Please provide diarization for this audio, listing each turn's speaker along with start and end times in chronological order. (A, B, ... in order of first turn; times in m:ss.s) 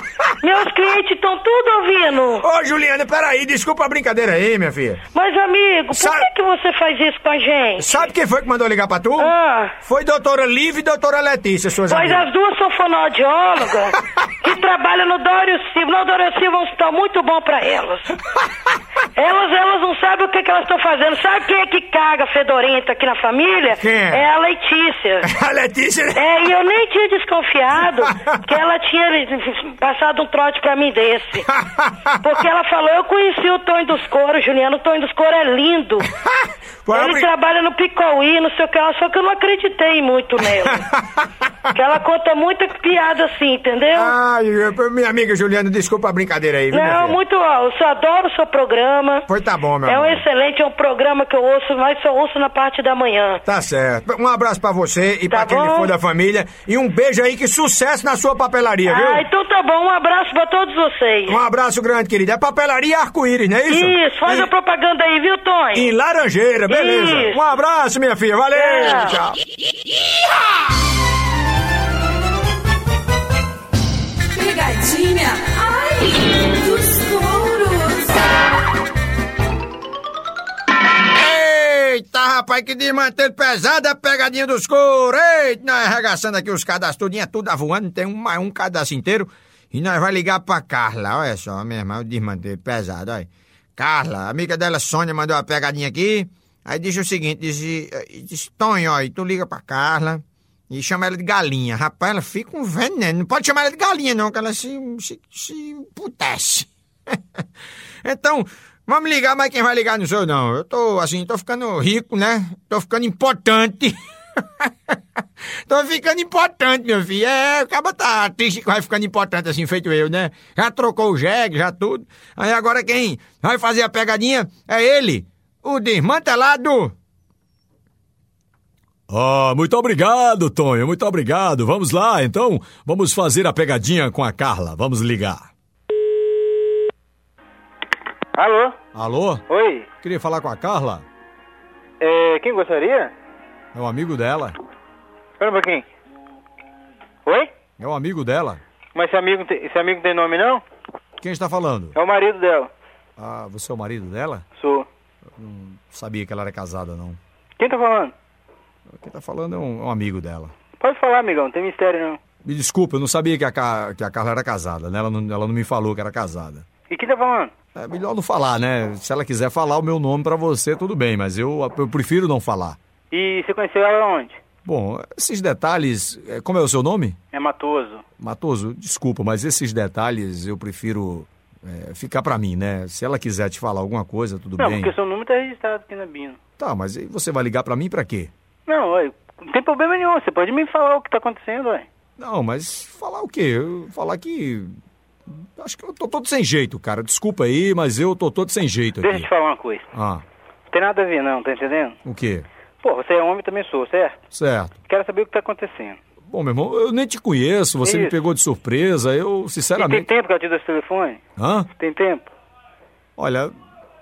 0:00.4-0:02.4 A
0:02.4-0:05.0 B
0:05.1-0:08.0 A
0:05.9-0:06.2 B
0:07.8-0:09.3 B
0:09.2-0:09.8 A
0:09.8-0:12.2 B
0:11.9-0:18.1 A
0:19.2-0:25.2 A
0:23.8-0:24.2 B
0:25.2-0:26.2 B
0:26.2-0:31.4 A
0:28.1-0:28.4 B
0:31.5-0:32.2 B
0:32.2-0:36.0 A
0:36.2-0:37.2 B
0:36.9-0:40.8 A
0:40.7-0:41.2 B
0:41.7-0:44.1 A
0:43.9-0:47.2 B
0:46.7-0:49.2 A
0:49.3-0:50.2 B
0:49.8-0:53.4 A
0:53.4-0:59.2 B
0:55.3-0:55.9 A
0:58.8-1:01.4 A
1:01.3-1:04.5 B
1:03.7-1:05.9 A
1:05.7-1:09.4 B
1:06.7-1:07.4 A
1:08.5-1:09.2 A
1:14.3-1:18.4 C
1:21.1-1:47.1 B
1:48.0-1:54.0 B
1:54.6-1:54.9 B
1:55.7-2:06.9 B
2:09.1-2:15.5 D
2:18.3-2:18.8 E
2:18.9-2:19.4 D
2:19.5-2:19.9 E
2:20.0-2:21.0 D
2:22.0-2:23.1 E
2:23.7-2:24.6 D
2:25.4-2:25.8 E
2:27.2-2:27.5 E
2:27.8-2:28.6 D
2:28.9-2:30.6 E
2:31.2-2:31.9 D
2:31.9-2:32.7 E
2:33.2-2:34.4 D
2:34.6-2:34.9 E
2:35.4-2:37.2 D
2:37.6-2:38.1 E
2:38.9-2:40.5 D
2:40.8-2:42.2 E
2:42.4-2:46.6 D
2:46.9-2:47.5 E
2:47.7-2:52.8 D
2:53.1-2:54.4 E
2:54.6-2:57.2 D
2:57.3-2:58.0 E
2:58.2-3:04.9 D
3:04.6-3:06.4 E
3:06.6-3:08.3 D
3:08.7-3:11.9 E
3:12.2-3:14.7 D
3:15.6-3:19.3 D
3:19.0-3:19.9 E
3:19.9-3:20.2 D
3:20.7-3:22.0 E
3:22.0-3:22.4 D
3:22.8-3:24.2 E
3:24.3-3:24.7 D
3:24.9-3:26.0 E
3:26.3-3:30.1 D
3:27.8-3:28.2 E
3:29.7-3:31.2 E
3:31.4-3:31.7 D
3:31.8-3:32.3 E
3:33.2-3:33.5 D